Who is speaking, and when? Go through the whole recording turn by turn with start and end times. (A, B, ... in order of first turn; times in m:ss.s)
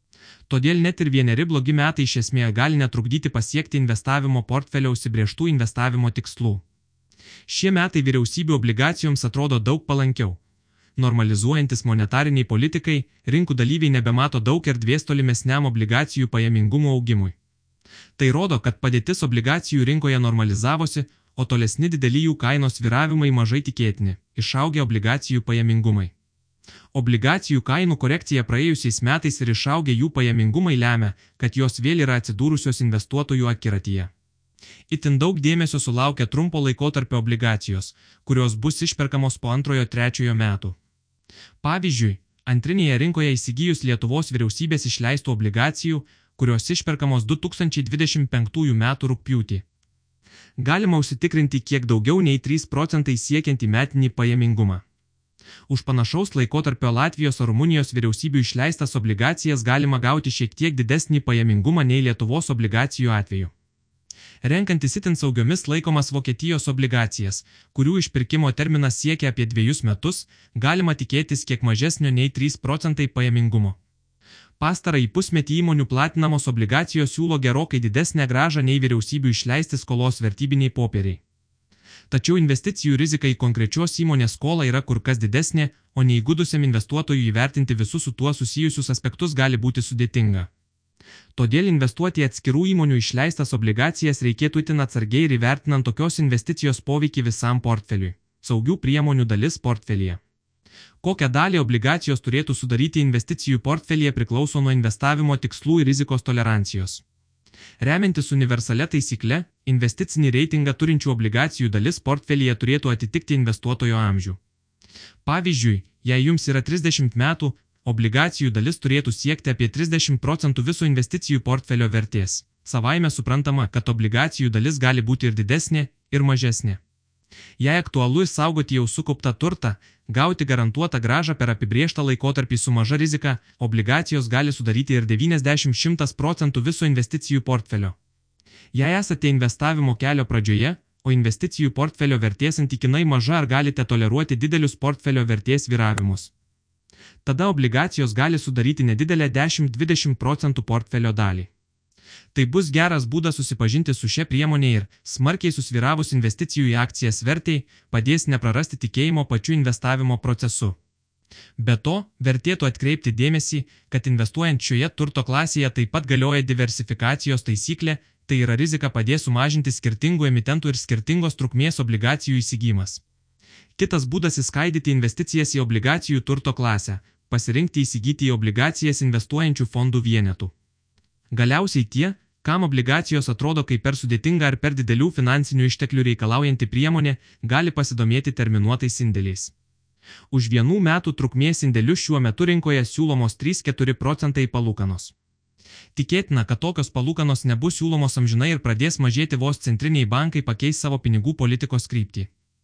0:00.5-0:06.6 A
0:07.5-0:10.4 A
0:11.0-0:17.3 A
0:18.2-0:26.1 A
0:26.9-0:34.1 A
0:34.9-0:40.8 A
0:41.6-0:49.6 A
0:50.6-0:54.8 A
0:55.7-1:03.5 A
1:04.4-1:13.8 A
1:14.6-1:21.2 A
1:22.1-1:30.5 A
1:31.3-1:40.2 A
1:41.0-1:47.0 A
1:47.8-1:54.4 A
1:55.2-2:06.8 A
2:07.6-2:18.0 A
2:18.7-2:26.3 A
2:27.2-2:31.5 A
2:32.3-2:40.8 A
2:41.6-2:53.0 A
2:53.8-3:00.5 A
3:01.3-3:09.5 A
3:10.3-3:15.1 A
3:15.9-3:22.3 A